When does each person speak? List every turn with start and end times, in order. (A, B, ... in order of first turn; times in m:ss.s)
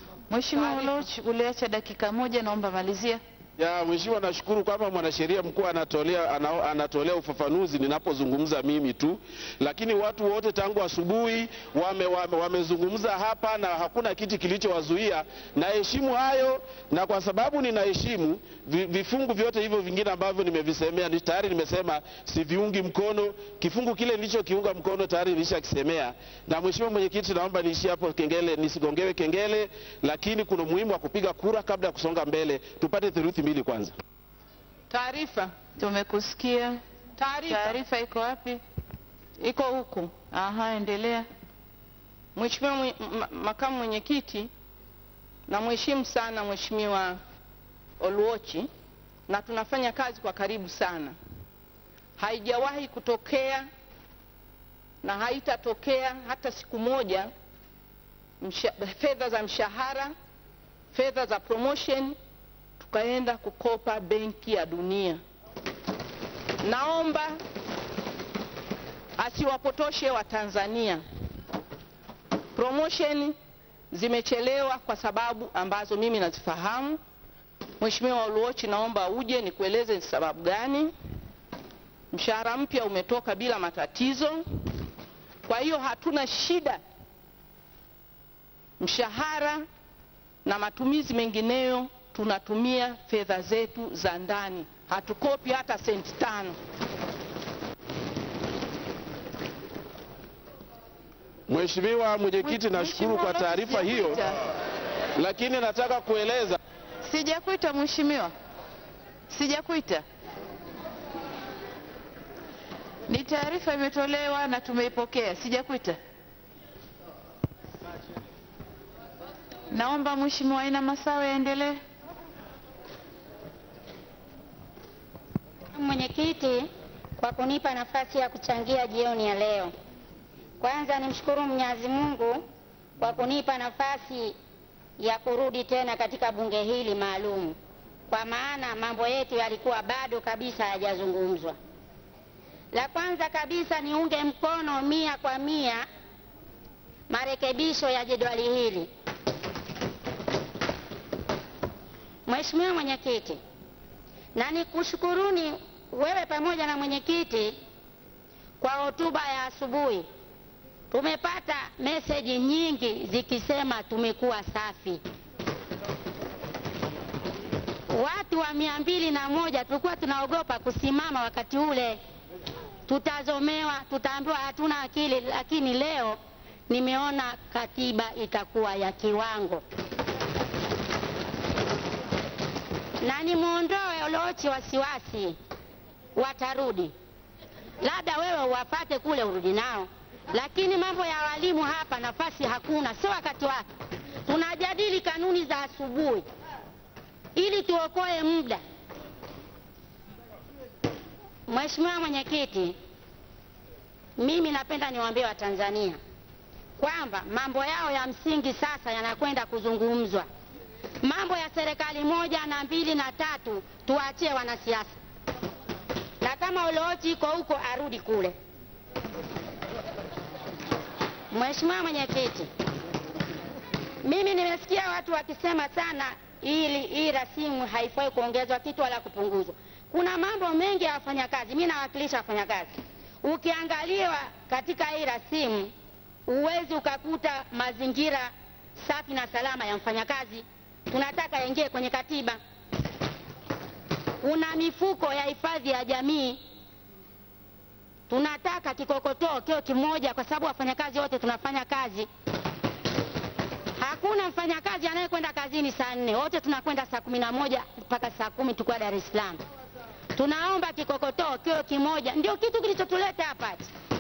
0:00.3-0:03.2 A
0:00.6-0:01.1 B
0:03.6-0:34.0 C
0:34.9-0:35.6 B
0:35.8-0:36.8 A
0:37.2-0:37.8 B
0:37.4-0:38.6 A
0:39.4-0:40.1 B
0:40.3-0:41.3 A
0:42.3-0:44.5 B
0:45.5-0:47.2 B
0:48.0-0:48.7 B
0:49.3-0:51.2 B
0:52.2-0:53.7 B
0:55.0-0:57.3 B
0:58.4-1:00.1 B
1:00.9-1:02.2 B
1:02.8-1:05.2 B
1:06.6-1:07.4 B
1:09.2-1:11.0 B
1:12.6-1:13.4 B
1:13.9-1:17.0 B
1:17.8-1:20.9 B
1:22.1-1:24.4 B
1:25.4-1:26.8 B
1:28.8-1:29.6 B
1:30.4-1:36.6 B
1:41.5-1:44.3 C
1:42.4-1:44.4 A
1:45.2-1:46.6 C
1:47.0-1:48.3 A
1:49.3-1:50.0 A
1:53.1-1:56.0 A
1:59.7-2:01.8 A
2:05.7-2:09.7 D
2:10.6-2:12.5 D
2:13.0-2:14.3 D
2:15.0-2:17.6 D
2:18.1-2:21.6 D
2:22.7-2:25.8 D
2:27.1-2:28.9 D
2:32.3-2:33.4 D
2:34.3-2:37.6 D
2:38.6-2:40.1 D
2:40.9-2:45.0 D
2:47.9-2:52.0 D
2:52.9-2:56.2 D
2:56.7-2:59.6 D
3:03.0-3:05.4 D
3:06.2-3:06.9 D
3:07.8-3:13.6 D
3:14.3-3:16.3 D
3:17.3-3:18.6 D
3:21.5-3:22.8 D
3:24.2-3:26.0 D
3:26.8-3:30.3 D
3:31.0-3:34.9 D
3:36.2-3:38.4 D
3:41.3-3:42.5 D
3:44.0-3:55.7 D
3:56.3-4:02.4 D
4:04.2-4:06.4 D
4:08.1-4:12.1 D
4:13.8-4:19.4 D
4:20.1-4:23.7 D